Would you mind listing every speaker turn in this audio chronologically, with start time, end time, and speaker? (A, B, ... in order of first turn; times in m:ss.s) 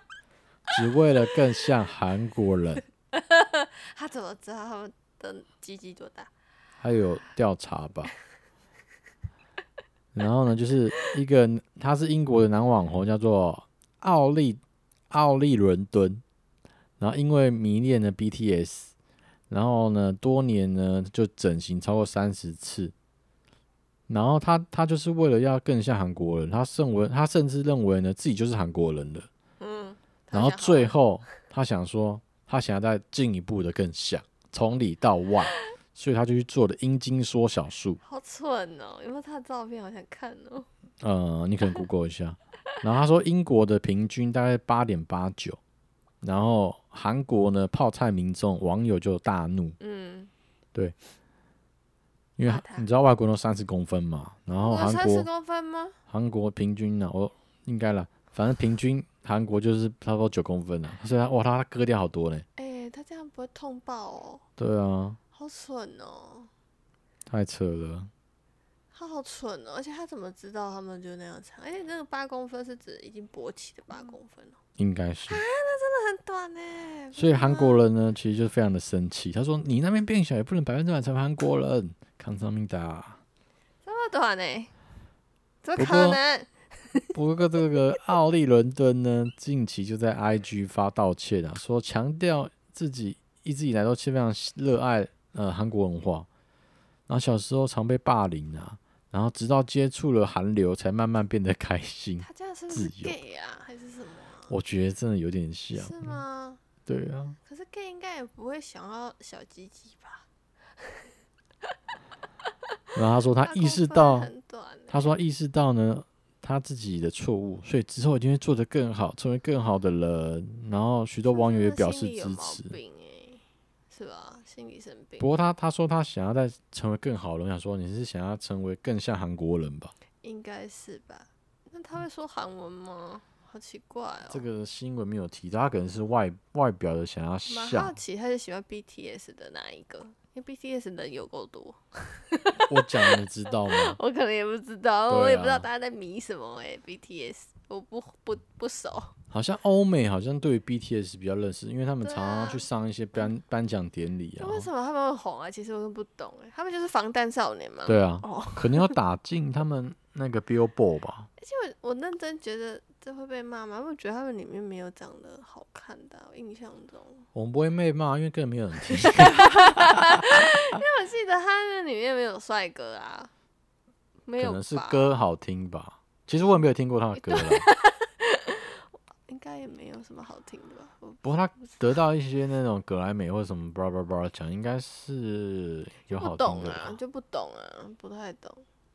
0:00.7-0:02.8 A
0:03.1-0:06.3 B
0:06.8-0:08.1 A
0:10.1-0:16.2 A
0:17.0-0:18.9 A
0:19.5-0:22.9 A
0:24.1-0:29.3 A
0:29.6-0:31.0 B
0:30.3-0:38.0 A
0:38.0-0:40.7 B
0:41.0-0:45.6 A
0:46.2-0:49.8 A
0:49.8-0:50.3 B
0:52.4-0:55.3 A
0:52.4-0:52.9 B
0:54.6-0:56.0 B
0:56.1-1:02.4 A
1:02.6-1:04.4 B
1:04.6-1:05.2 A
1:05.3-1:06.5 B
1:07.3-1:08.1 A
1:08.9-1:14.6 B
1:14.8-1:15.4 A
1:15.3-1:17.8 B
1:17.1-1:23.2 A
1:23.8-1:24.7 B
1:25.6-1:27.1 B
1:25.8-1:26.2 A
1:27.1-1:36.3 A
1:37.1-1:43.2 A
1:42.2-1:44.5 B
1:44.5-1:46.2 A
1:45.8-1:46.6 B
1:46.9-1:47.4 A
1:47.4-1:50.3 B
1:50.8-1:51.1 B
1:52.9-1:54.3 A
1:53.4-1:55.1 B
1:54.9-2:02.7 A
2:01.3-2:05.3 B
2:05.2-2:09.9 A
2:10.2-2:14.4 B
2:14.3-2:17.9 A
2:17.5-2:29.2 B
2:22.6-2:24.0 A
2:25.1-2:25.7 A
2:29.3-2:34.7 A
2:32.0-2:32.7 B
2:34.4-2:39.0 B
2:37.9-2:41.3 A
2:41.4-2:47.3 B
2:47.3-2:50.4 A
2:49.0-2:53.3 B
2:54.3-2:55.1 B
2:54.4-2:57.7 A
2:57.2-3:02.0 B
3:01.2-3:07.0 A
3:06.1-3:08.6 B